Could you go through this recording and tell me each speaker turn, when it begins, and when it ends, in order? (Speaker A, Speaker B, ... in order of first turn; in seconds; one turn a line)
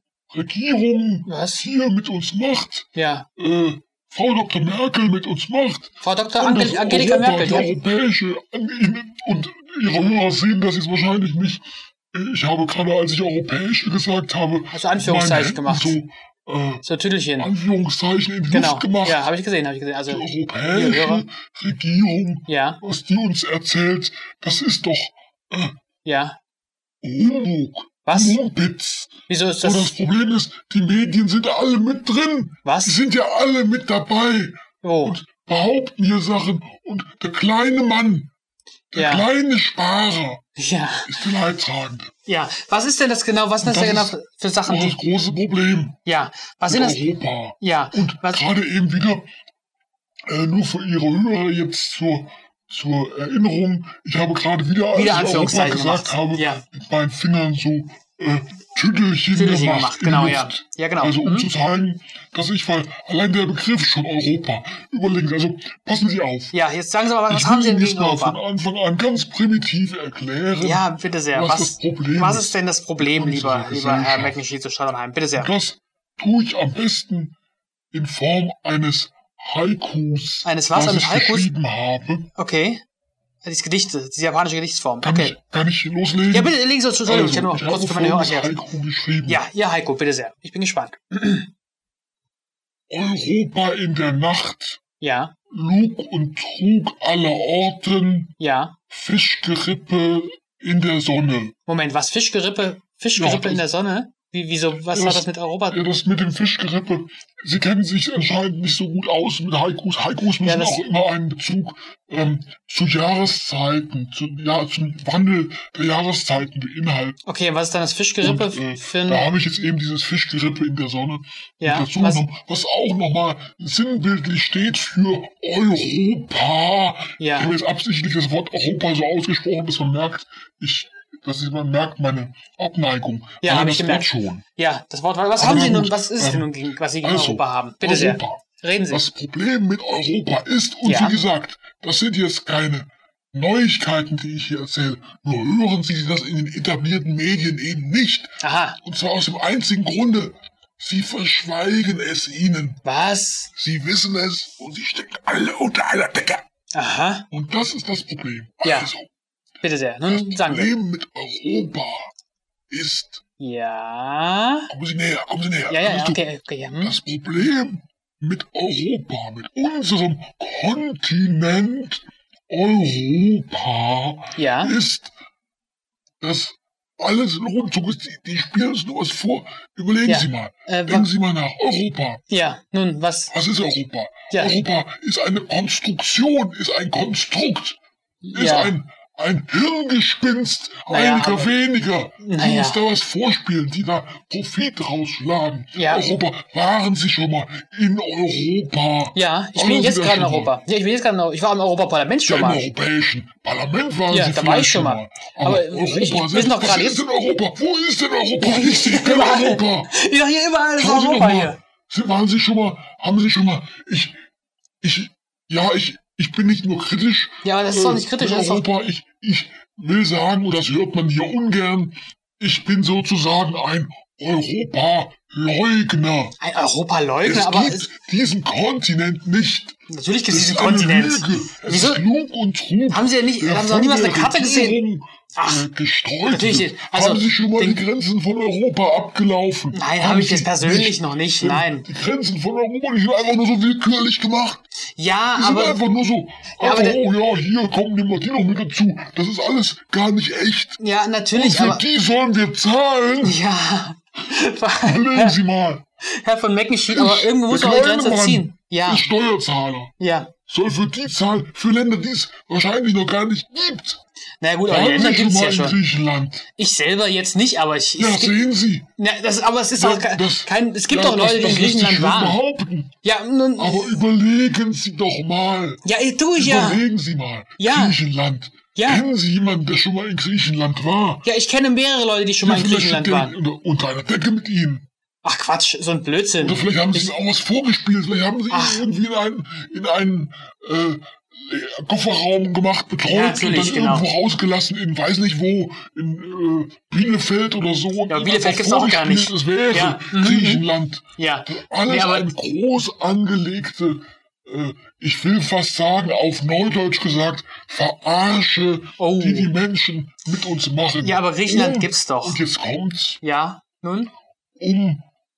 Speaker A: 0.3-16.8
Speaker B: 1.2-1.7
Speaker B: 2.9-3.3
Speaker B: 6.0-7.7
Speaker B: 14.7-16.0
Speaker B: 16.8-17.5
Speaker A: 17.4-19.3
Speaker B: 18.5-21.2
Speaker A: 20.1-25.7
Speaker B: 22.5-22.8
Speaker B: 26.0-26.4
Speaker A: 27.0-38.3
Speaker B: 28.0-28.4
Speaker B: 29.3-29.9
Speaker B: 32.6-33.0
Speaker B: 34.8-35.2
Speaker A: 38.9-40.4
Speaker B: 38.9-39.3
Speaker B: 40.6-41.2
Speaker A: 41.0-42.1
Speaker B: 42.3-45.0
Speaker A: 43.6-46.0
Speaker B: 46.0-47.0
Speaker A: 46.7-49.2
Speaker B: 47.6-48.5
Speaker A: 50.3-66.5
Speaker B: 54.9-56.6
Speaker B: 59.3-61.5
Speaker B: 66.5-68.4
Speaker A: 67.3-74.4
Speaker B: 70.6-75.5
Speaker A: 75.3-77.4
Speaker A: 77.9-82.3
Speaker B: 80.4-81.5
Speaker B: 82.3-82.8
Speaker B: 83.4-85.3
Speaker A: 85.0-89.4
Speaker B: 86.3-88.6
Speaker B: 89.2-91.5
Speaker A: 92.9-94.8
Speaker B: 95.0-95.3
Speaker A: 95.5-98.3
Speaker B: 98.4-98.8
Speaker A: 98.9-101.5
Speaker B: 101.7-105.8
Speaker A: 103.2-103.7
Speaker A: 104.8-117.2
Speaker B: 110.4-110.8
Speaker B: 117.2-119.3
Speaker A: 118.2-134.4
Speaker B: 121.6-122.2
Speaker B: 127.2-127.5
Speaker B: 133.4-139.1
Speaker A: 135.3-152.8
Speaker B: 140.8-141.2
Speaker B: 148.4-148.8
Speaker B: 152.8-153.5
Speaker A: 153.5-156.4
Speaker B: 156.7-157.3
Speaker A: 157.3-159.1
Speaker B: 158.6-158.9
Speaker B: 159.6-160.7
Speaker A: 160.1-162.1
Speaker A: 162.7-163.2
Speaker B: 163.4-164.7
Speaker A: 164.7-166.2
Speaker B: 165.7-167.0
Speaker A: 166.8-175.1
Speaker B: 174.3-174.8
Speaker A: 176.2-182.2
Speaker B: 180.0-181.1
Speaker B: 182.3-183.3
Speaker A: 183.3-187.8
Speaker B: 184.3-184.6
Speaker B: 188.2-188.8
Speaker A: 188.3-200.6
Speaker B: 190.9-191.5
Speaker B: 192.2-192.8
Speaker B: 195.7-196.1
Speaker B: 199.1-202.7
Speaker A: 202.3-209.9
Speaker B: 204.1-207.0
Speaker B: 208.4-211.6
Speaker A: 210.8-214.2
Speaker A: 214.8-226.3
Speaker B: 217.4-218.7
Speaker B: 226.4-227.9
Speaker A: 227.2-244.6
Speaker B: 229.9-232.0
Speaker B: 232.9-234.8
Speaker B: 235.3-235.6
Speaker B: 236.2-237.8
Speaker B: 239.7-241.9
Speaker B: 244.9-245.8
Speaker A: 245.3-250.8
Speaker B: 246.6-247.0
Speaker B: 250.8-251.9
Speaker A: 251.3-253.4
Speaker B: 253.2-255.4
Speaker A: 254.8-255.8
Speaker B: 256.1-259.1
Speaker A: 256.9-259.9
Speaker B: 260.0-260.3
Speaker A: 260.5-264.0
Speaker B: 264.4-265.8
Speaker A: 264.7-266.4
Speaker B: 266.5-268.4
Speaker A: 268.0-268.9
Speaker B: 269.0-272.4
Speaker A: 269.7-272.9
Speaker B: 273.0-274.0
Speaker A: 273.6-275.8
Speaker B: 275.8-276.9
Speaker A: 276.4-281.2
Speaker B: 277.6-278.0
Speaker B: 278.7-279.1
Speaker B: 281.2-283.4
Speaker A: 282.4-284.9
Speaker B: 285.2-287.1
Speaker A: 286.4-313.2
Speaker B: 288.5-288.9
Speaker B: 293.1-294.1
Speaker B: 298.1-302.3
Speaker B: 309.0-309.5
Speaker B: 311.0-312.4
Speaker B: 313.2-314.1
Speaker A: 314.6-315.0